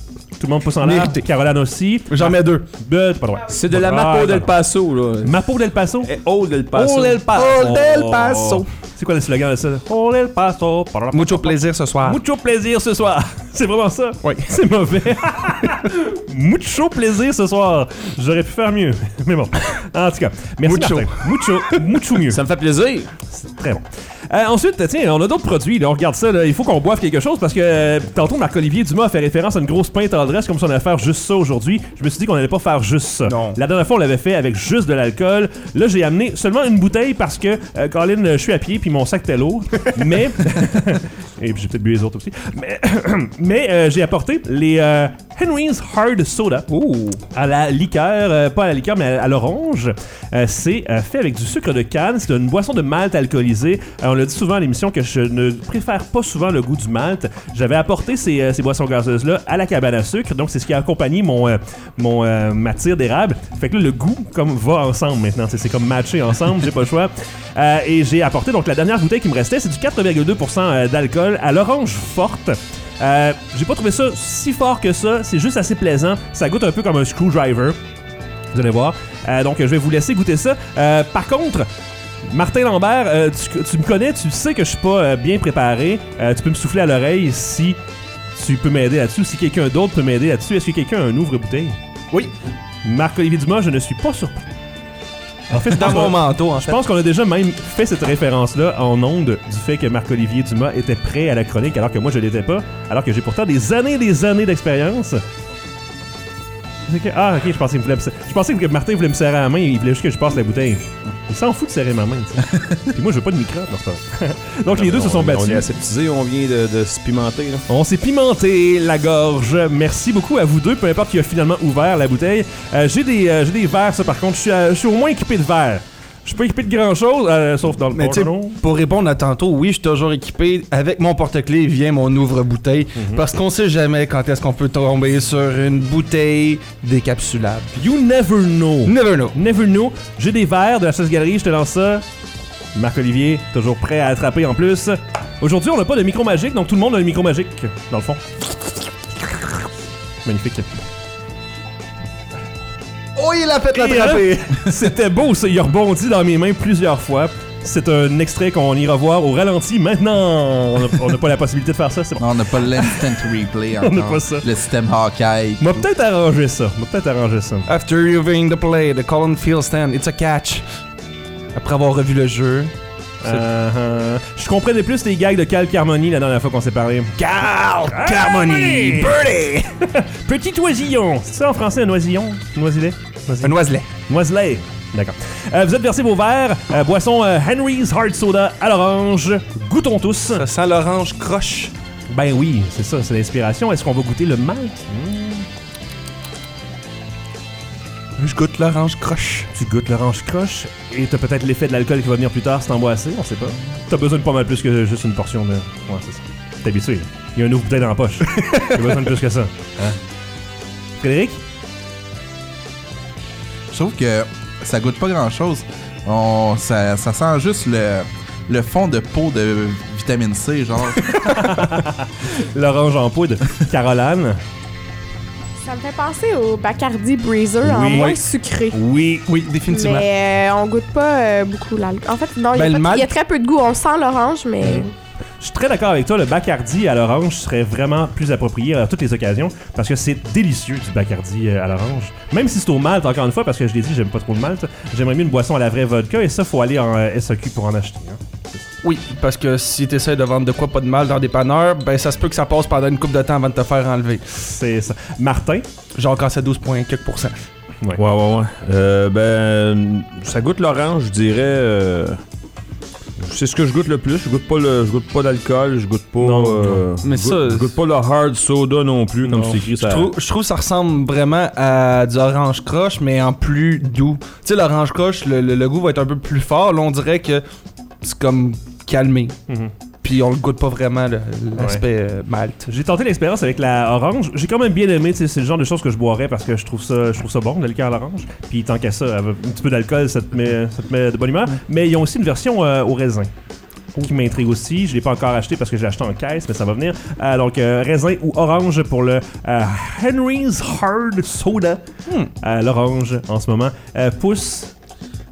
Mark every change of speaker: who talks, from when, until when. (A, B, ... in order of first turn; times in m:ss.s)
0:00.4-0:04.5 A
0:00.8-0:01.2 B
0:02.1-0:02.6 B
0:03.4-0:05.4 C
0:05.2-0:06.1 A
0:06.0-0:07.3 C
0:06.7-0:22.4 A
0:07.3-0:08.7 B
0:11.1-0:12.2 B
0:14.2-0:14.5 B
0:20.6-0:21.8 B
0:22.3-0:23.1 C
0:23.3-0:46.7 A
0:33.2-0:33.6 B
0:46.7-0:47.2 B
0:47.3-1:17.8 A
1:18.5-1:21.7 A
1:22.3-1:27.8 A
1:28.3-1:31.8 A
1:32.8-1:34.4 A
1:35.5-1:45.2 A
1:35.5-1:36.7 B
1:46.8-1:55.7 A
1:54.7-1:57.6 C
1:57.7-2:08.6 A
2:07.9-2:17.8 B
2:13.0-2:13.2 A
2:17.8-2:22.0 A
2:18.8-2:19.4 B
2:22.7-2:28.2 A
2:30.2-2:30.7 A
2:33.2-2:34.6 B
2:33.7-2:43.1 A
2:42.2-2:45.8 D
2:43.8-2:44.5 A
2:45.6-2:47.7 A
2:47.7-2:50.6 B
2:51.5-2:52.7 B
2:53.2-2:57.3 A
2:57.2-2:59.6 B
2:57.9-2:59.2 A
2:59.8-3:10.4 A
3:03.4-3:03.9 B
3:10.3-3:11.7 B
3:12.1-3:15.4 A
3:18.2-3:19.5 B
3:19.5-3:30.0 A
3:31.0-3:31.4 A
3:33.7-3:41.1 D
3:41.1-3:44.4 A
3:45.6-3:48.8 E
3:47.7-3:48.2 A
3:47.8-3:50.1 B
3:49.6-3:54.9 E
3:52.5-3:53.1 B
3:54.6-3:54.9 A
3:55.4-4:08.6 A
4:08.8-4:14.3 B
4:14.4-4:15.6 A
4:15.9-4:17.4 B
4:18.0-4:22.2 C
4:23.2-4:30.1 C
4:26.2-4:26.8 A
4:27.0-4:27.7 B
4:29.3-4:29.7 A
4:29.4-4:37.4 B
4:38.0-4:39.3 B
4:40.0-4:42.7 B
4:41.6-4:41.8 A
4:42.7-4:53.3 A
4:53.9-5:01.8 A
5:02.4-5:04.7 A